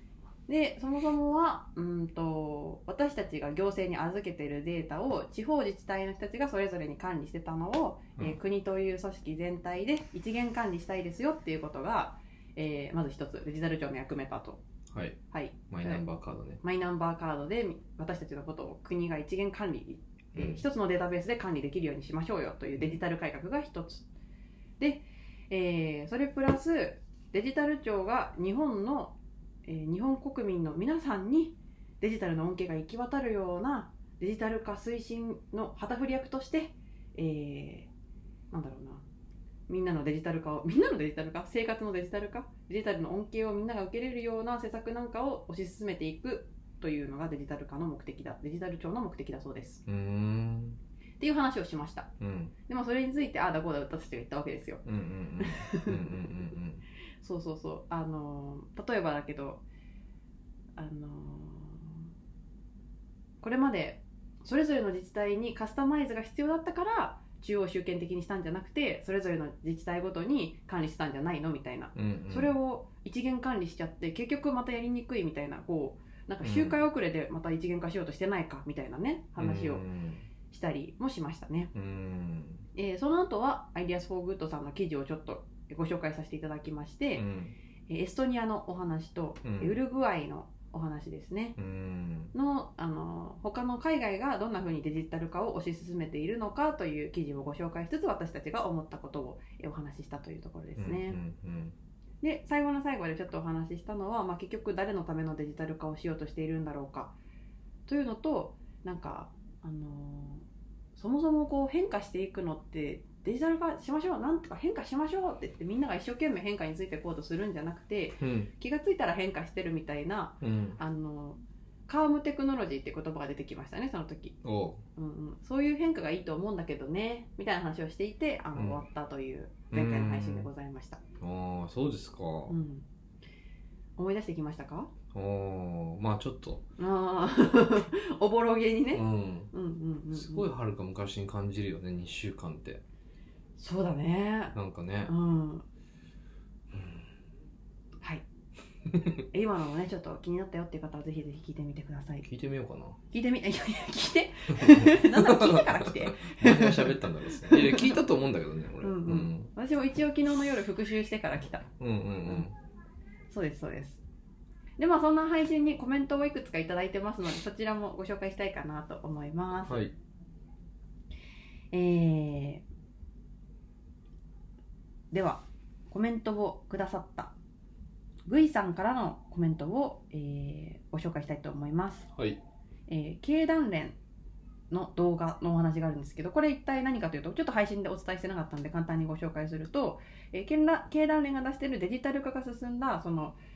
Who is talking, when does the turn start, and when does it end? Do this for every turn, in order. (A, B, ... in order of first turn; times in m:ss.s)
0:00.5-0:14.6 A
0:14.9-0:15.2 B
0:15.3-0:16.1 A
0:15.7-0:16.6 B
0:16.6-0:24.0 A
0:20.4-0:20.6 B
0:24.8-0:37.9 A
0:38.5-0:39.0 A
0:39.7-0:49.8 A
0:49.9-0:50.8 B
0:51.2-0:52.1 A
0:52.2-0:52.5 B
0:52.7-0:54.8 A
0:54.8-0:56.8 B
0:55.4-0:56.2 A
0:57.2-0:59.6 A
1:00.8-1:02.0 A
1:03.4-1:19.8 A
1:12.0-1:12.5 B
1:16.4-1:16.8 B
1:19.4-1:20.2 B
1:20.5-1:21.7 A
1:21.7-1:22.6 B
1:22.8-1:27.2 A
1:27.2-1:27.6 B
1:27.9-1:31.6 A
1:29.4-1:29.8 B
1:31.6-1:32.3 B
1:32.3-1:41.2 A
1:40.8-1:41.8 B
1:42.2-1:47.2 A
1:47.9-2:04.4 A
1:58.2-1:58.5 B
2:00.4-2:00.8 B
2:04.4-2:04.8 B
2:05.0-2:11.0 A
2:08.6-2:08.8 B
2:09.7-2:10.5 B
2:11.2-2:12.6 B
2:12.5-2:12.8 A
2:14.0-2:14.9 A
2:15.1-2:16.6 B
2:16.8-2:20.5 A
2:18.9-2:19.5 B
2:20.1-2:22.8 B
2:23.6-2:24.5 A
2:24.5-2:25.1 B
2:25.1-2:25.6 A
2:26.7-2:27.0 B
2:28.9-2:29.2 B
2:29.3-2:32.2 A
2:32.2-2:33.0 B
2:33.1-2:38.0 A
2:34.6-2:39.5 B
2:38.8-2:41.7 A
2:41.8-2:42.5 B
2:43.3-2:44.0 A
2:44.8-2:49.8 A
2:49.7-2:49.9 B
2:51.7-2:52.6 A
2:55.1-2:57.3 A
2:58.3-3:02.1 A
3:02.9-3:04.0 A
3:04.7-3:13.4 A